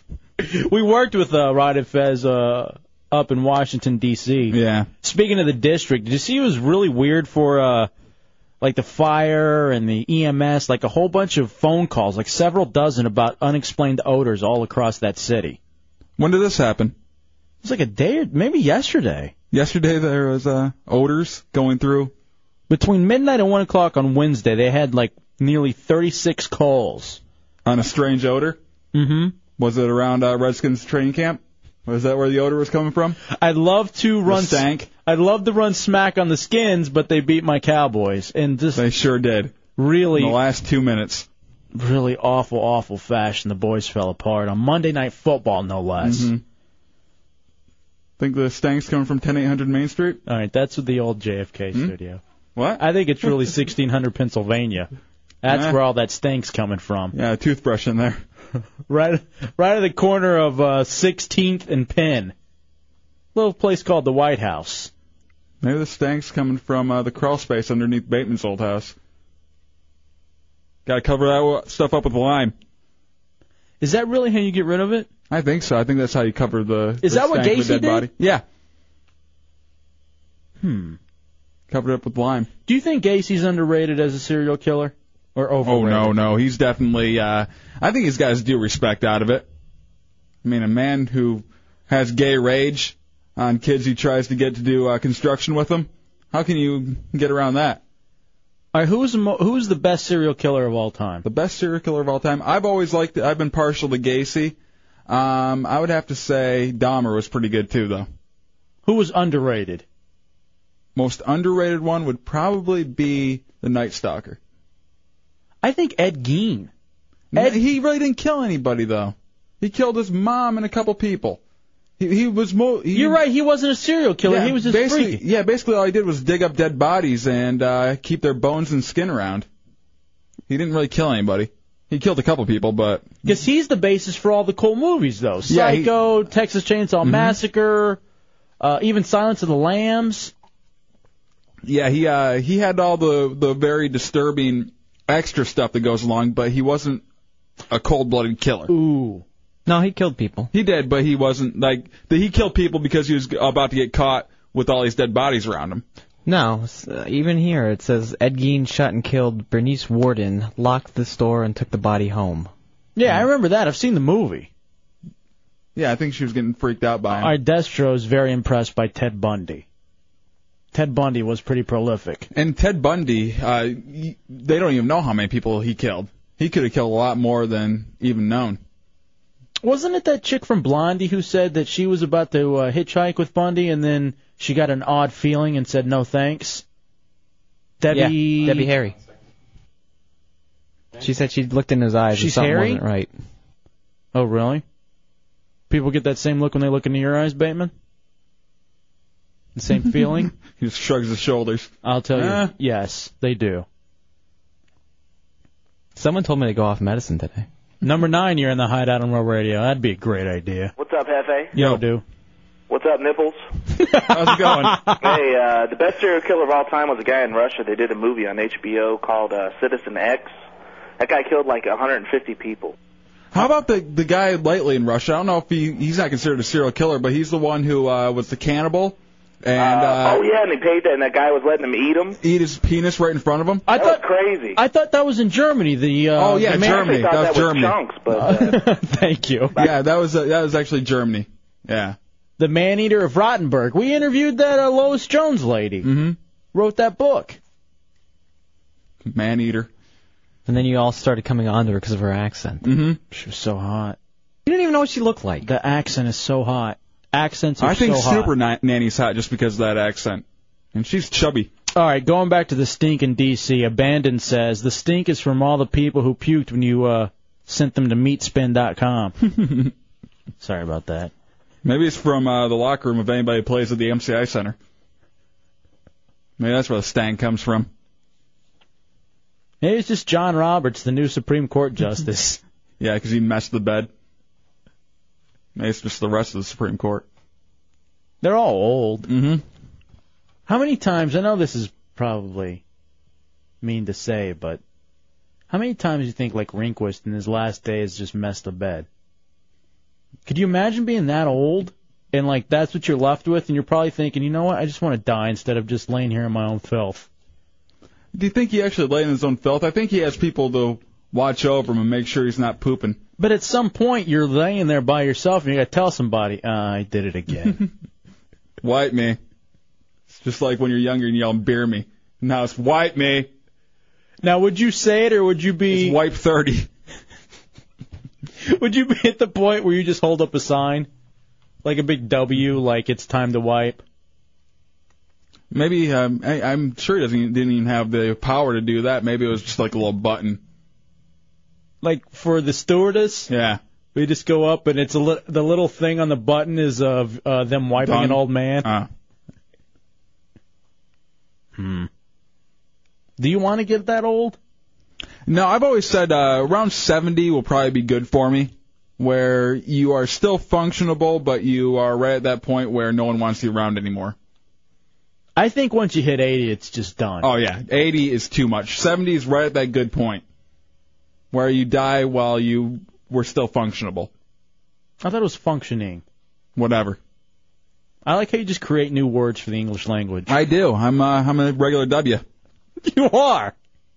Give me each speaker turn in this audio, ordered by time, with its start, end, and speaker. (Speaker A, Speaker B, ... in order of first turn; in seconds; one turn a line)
Speaker A: 0.4-7.9
Speaker B: 4.5-4.9
Speaker A: 8.6-15.6
Speaker B: 16.2-16.9
Speaker A: 17.6-19.3
Speaker B: 19.5-22.1
Speaker A: 22.7-27.2
Speaker B: 27.6-28.6
Speaker A: 28.9-29.3
Speaker B: 29.6-33.2
Speaker A: 33.3-38.8
Speaker B: 34.2-34.9
Speaker B: 38.8-39.6
Speaker A: 39.8-40.4
Speaker B: 40.1-41.3
Speaker A: 41.7-46.3
Speaker B: 46.0-46.4
Speaker B: 48.2-50.2
Speaker A: 50.2-52.2
Speaker B: 52.5-52.8
Speaker A: 52.8-54.9
Speaker A: 55.4-57.1
Speaker B: 55.5-55.8
Speaker B: 57.1-58.2
Speaker A: 58.9-62.3
Speaker A: 63.3-64.9
Speaker B: 65.6-68.9
Speaker B: 70.8-72.5
Speaker A: 73.8-75.1
Speaker B: 75.3-78.4
Speaker A: 77.0-78.1
Speaker A: 80.6-81.0
Speaker B: 81.7-82.5
Speaker A: 82.7-86.2
Speaker B: 85.6-89.5
Speaker B: 90.4-97.8
Speaker A: 98.7-101.2
Speaker B: 101.2-104.5
Speaker B: 105.1-108.1
Speaker A: 108.8-109.8
Speaker B: 110.9-114.4
Speaker A: 115.6-116.7
Speaker B: 117.3-121.4
Speaker A: 117.3-117.6
Speaker B: 122.0-123.2
Speaker A: 122.9-125.2
Speaker B: 124.2-129.5
Speaker B: 130.5-133.2
Speaker A: 133.2-138.0
Speaker B: 135.5-135.9
Speaker B: 137.0-137.4
Speaker A: 138.6-140.3
Speaker B: 141.6-147.0
Speaker B: 147.7-148.7
Speaker A: 148.7-149.2
Speaker C: 149.7-150.5
Speaker B: 150.5-155.8
Speaker C: 156.2-162.5
Speaker A: 162.9-164.5
Speaker B: 165.8-167.3
Speaker A: 167.1-169.6
Speaker A: 170.7-172.3
Speaker B: 172.3-178.6
Speaker A: 179.6-186.6
Speaker A: 187.8-188.7
Speaker C: 187.9-188.9
Speaker C: 191.0-193.1
Speaker A: 192.1-192.8
Speaker A: 194.1-194.6
Speaker A: 195.7-197.7
Speaker A: 199.6-200.3
Speaker B: 199.9-202.5
Speaker A: 201.8-203.6
Speaker C: 205.9-207.4
Speaker A: 207.8-210.7
Speaker D: 210.8-211.5
Speaker A: 211.5-212.0
Speaker B: 211.6-211.8
Speaker D: 212.7-213.4
Speaker A: 213.8-215.1
Speaker B: 214.1-214.8
Speaker D: 215.0-220.3
Speaker D: 221.0-222.7
Speaker B: 223.3-230.2
Speaker D: 229.6-232.2
Speaker B: 232.2-233.6
Speaker A: 233.7-234.0
Speaker D: 233.7-234.6
Speaker A: 234.5-237.0
Speaker B: 236.2-237.8
Speaker D: 236.7-238.5
Speaker A: 238.1-239.7
Speaker B: 239.6-241.9
Speaker A: 242.4-245.9
Speaker B: 245.8-246.2
Speaker A: 246.5-247.4
Speaker B: 249.0-249.7
Speaker C: 250.5-252.6
Speaker B: 252.6-253.0
Speaker A: 253.1-254.0
Speaker C: 254.4-255.5
Speaker A: 255.4-258.3
Speaker B: 257.6-261.5
Speaker A: 261.7-269.1
Speaker B: 269.2-269.7
Speaker A: 270.4-271.1
Speaker B: 271.6-274.6
Speaker B: 276.4-277.7
Speaker A: 279.6-282.4
Speaker B: 282.8-283.9
Speaker B: 285.5-287.0
Speaker A: 288.2-289.1
Speaker B: 289.1-289.4
Speaker A: 290.5-292.6
Speaker A: 293.6-294.6
Speaker A: 295.5-298.9
Speaker A: 300.2-307.1
Speaker B: 308.1-313.0
Speaker A: 313.2-317.6
Speaker B: 318.6-319.2
Speaker B: 320.1-323.3
Speaker A: 324.2-326.0
Speaker B: 325.7-326.7
Speaker A: 328.4-330.9
Speaker A: 331.6-333.8
Speaker B: 335.5-340.4
Speaker A: 341.8-343.3
Speaker B: 343.3-343.6
Speaker A: 343.9-348.7
Speaker B: 347.8-348.9
Speaker A: 351.6-351.9
Speaker A: 353.2-354.4
Speaker B: 355.3-364.1
Speaker A: 365.4-367.3
Speaker B: 367.2-370.2
Speaker B: 371.3-374.1
Speaker A: 375.0-376.0
Speaker B: 376.6-377.0
Speaker A: 378.0-380.3
Speaker B: 380.3-382.2
Speaker A: 382.8-383.5